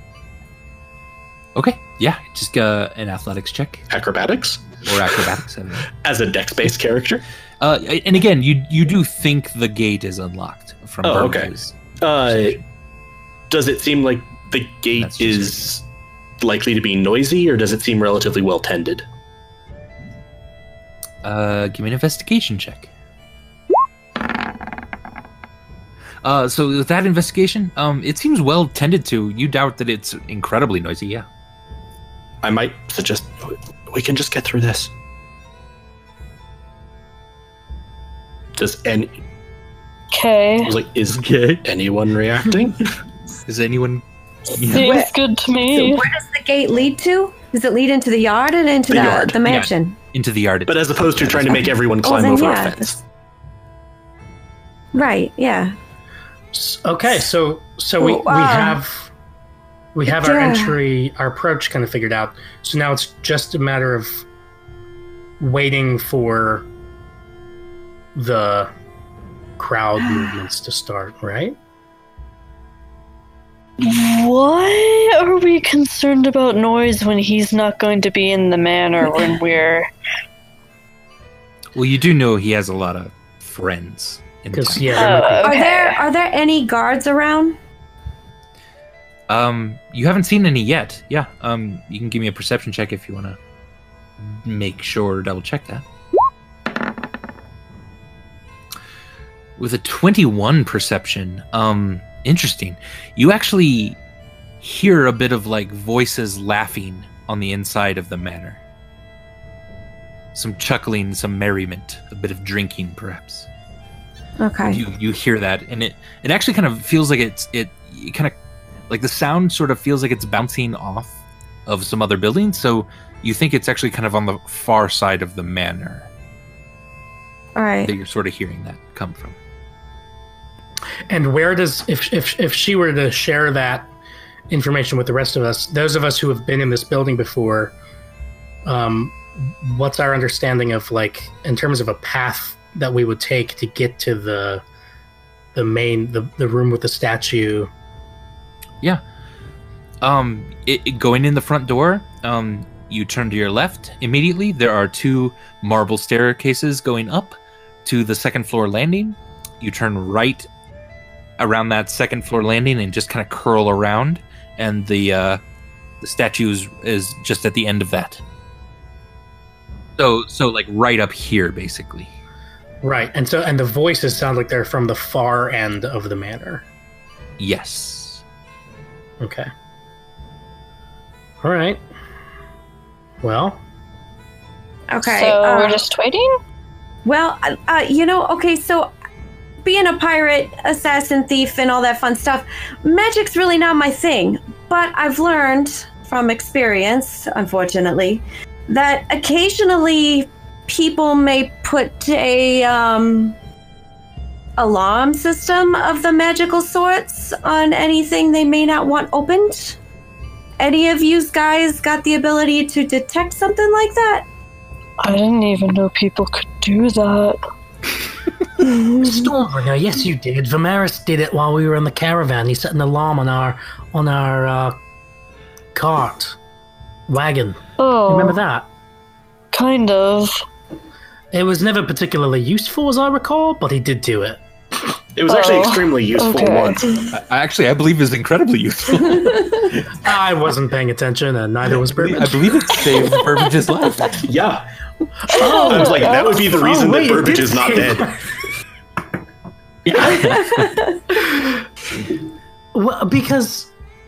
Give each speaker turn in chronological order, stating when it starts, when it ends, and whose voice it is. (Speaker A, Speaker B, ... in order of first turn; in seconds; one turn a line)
Speaker A: 1.5-3.9
Speaker B: 3.9-4.8
Speaker A: 4.8-5.9
Speaker B: 5.9-7.2
Speaker A: 7.6-12.6
Speaker B: 11.0-12.6
Speaker B: 13.5-15.8
Speaker A: 15.0-15.7
Speaker B: 16.4-19.1
Speaker A: 21.2-22.9
Speaker A: 26.2-31.2
Speaker B: 32.4-34.9
Speaker B: 38.5-39.1
Speaker C: 40.1-40.7
Speaker B: 40.6-42.8
Speaker A: 41.1-41.6
Speaker A: 43.5-44.0
Speaker A: 44.5-45.0
Speaker C: 44.6-46.1
Speaker D: 44.7-45.1
Speaker D: 45.7-50.0
Speaker B: 48.9-49.4
Speaker A: 49.4-51.8
Speaker B: 50.7-53.0
Speaker D: 52.0-52.9
Speaker D: 54.9-55.7
Speaker E: 56.5-59.1
Speaker D: 58.0-58.8
Speaker E: 59.9-64.2
Speaker D: 60.1-60.8
Speaker E: 65.4-66.7
Speaker E: 68.1-68.7
Speaker E: 69.6-71.6
Speaker C: 73.8-79.9
Speaker A: 81.7-85.2
Speaker E: 84.5-85.5
Speaker C: 84.9-86.0
Speaker D: 85.4-87.6
Speaker A: 89.3-93.4
Speaker A: 94.2-95.8
Speaker A: 99.6-104.0
Speaker A: 104.6-108.6
Speaker A: 110.3-113.5
Speaker D: 114.4-114.8
Speaker A: 114.7-118.3
Speaker A: 118.9-121.1
Speaker A: 121.7-126.1
Speaker D: 127.5-127.9
Speaker A: 127.8-129.3
Speaker E: 131.1-133.9
Speaker E: 134.5-137.7
Speaker E: 138.6-144.6
Speaker E: 145.5-147.7
Speaker A: 150.0-160.4
Speaker A: 161.4-165.4
Speaker A: 166.0-168.2
Speaker A: 170.0-172.1
Speaker E: 172.8-176.6
Speaker A: 177.4-178.2
Speaker E: 179.2-179.5
Speaker E: 181.4-181.8
Speaker E: 183.2-183.6
Speaker D: 184.9-185.8
Speaker C: 185.0-186.4
Speaker D: 187.0-188.9
Speaker D: 189.6-203.3
Speaker D: 204.6-209.8
Speaker D: 210.6-214.3
Speaker C: 215.0-217.4
Speaker E: 219.0-224.8
Speaker E: 225.7-226.4
Speaker E: 227.1-228.7
Speaker C: 227.8-228.4
Speaker C: 229.5-230.4
Speaker E: 231.3-234.4
Speaker B: 235.2-236.9
Speaker C: 235.2-237.1
Speaker A: 237.1-239.9
Speaker E: 240.0-242.6
Speaker A: 241.9-244.3
Speaker B: 244.2-244.6
Speaker E: 245.3-248.2
Speaker C: 245.4-246.4
Speaker B: 245.6-248.1
Speaker A: 249.9-250.7
Speaker E: 249.9-250.5
Speaker D: 250.3-250.8
Speaker E: 251.1-251.5
Speaker E: 252.7-253.7